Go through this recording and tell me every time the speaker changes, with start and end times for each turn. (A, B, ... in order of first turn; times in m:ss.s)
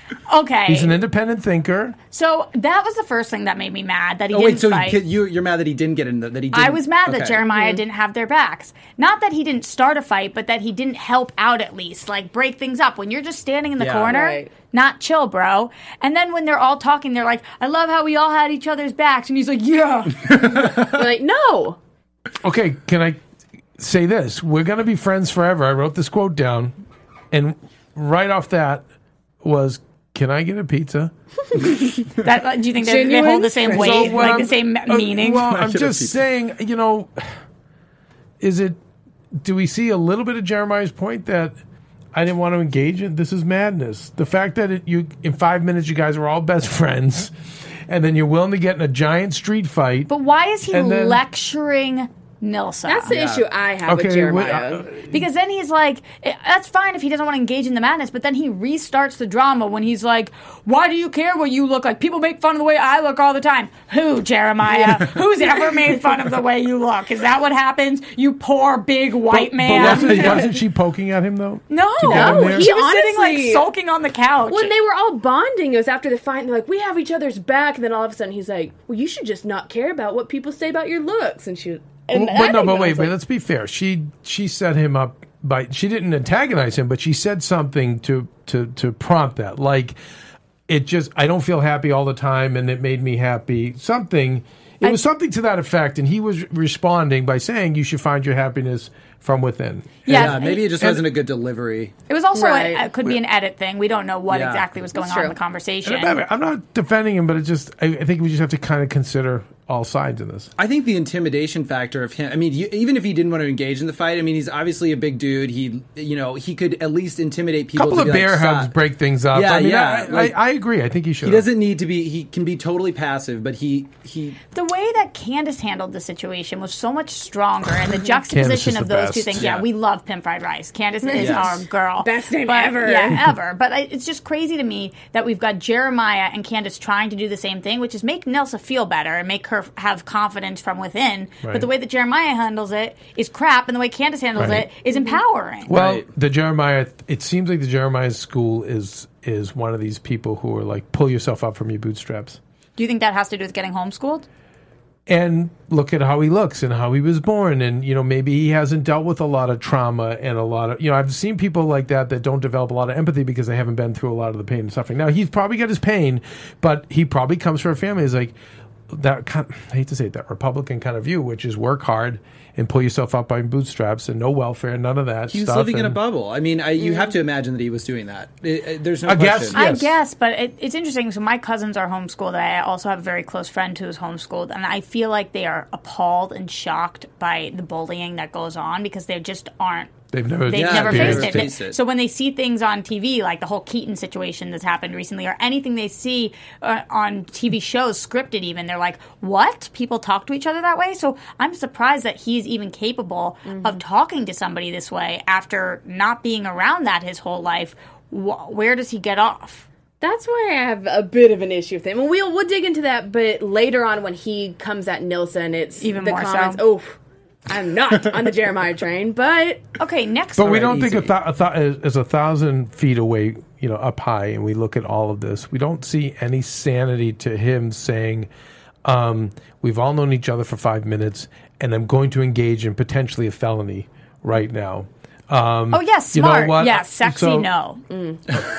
0:00.3-0:00.9 A
0:00.7-0:02.0 B
0:02.1-0:05.0 A
0:04.3-0:07.4 C
0:06.5-0:20.4 A
0:07.4-0:07.8 D
0:13.8-0:14.1 C
0:14.1-0:14.5 D
0:20.4-0:21.8 D
0:22.4-0:23.2 B
0:23.8-0:26.7 B
0:27.3-0:28.8 B
0:29.4-0:31.1 B
0:32.1-0:35.5 A
0:32.8-0:34.5 D
0:33.7-0:37.2 B
0:35.5-0:36.2 C
0:38.4-0:38.8 B
0:39.3-0:41.6 B
0:42.1-0:50.1 B
0:50.1-0:53.1 A
0:50.7-0:51.2 B
0:52.9-0:54.9 D
0:53.1-0:53.5 C
0:53.9-0:55.1 B
0:55.0-1:10.2 A
1:09.3-1:12.7 B
1:09.9-1:10.4 C
1:09.9-1:10.4 D
1:11.7-1:14.7 A
1:12.0-1:13.6 D
1:14.5-1:23.1 D
1:22.1-1:30.0 B
1:30.7-1:41.0 B
1:40.1-1:40.7 A
1:40.1-1:41.9 C
1:42.1-1:46.2 A
1:42.4-1:42.8 D
1:44.3-1:44.7 C
1:45.0-1:45.4 D
1:45.8-1:50.5 B
1:50.6-1:58.7 C
1:57.8-2:01.5 B
1:59.3-2:00.4 C
2:01.2-2:04.4 C
2:04.5-2:25.7 A
2:08.0-2:09.5 B
2:09.4-2:09.7 C
2:11.0-2:13.2 D
2:11.2-2:11.5 C
2:21.4-2:21.7 B
2:24.4-2:24.7 B
2:24.9-2:25.2 D
2:25.7-2:32.4 B
2:25.7-2:26.1 C
2:32.8-2:34.2 A
2:35.1-2:48.4 B
2:48.9-2:56.0 B
2:55.3-2:59.6 C
2:59.1-3:00.0 B
2:59.5-3:09.9 A
3:10.1-3:11.5 B
3:10.5-3:29.6 A
3:10.5-3:11.8 C
3:23.5-3:23.8 D
3:30.0-3:39.7 D
3:35.8-3:36.6 A
3:39.8-3:41.0 A
3:40.4-3:48.3 B
3:40.6-3:41.1 C
3:48.8-3:57.5 B
3:55.7-3:57.8 A
3:57.9-3:58.2 D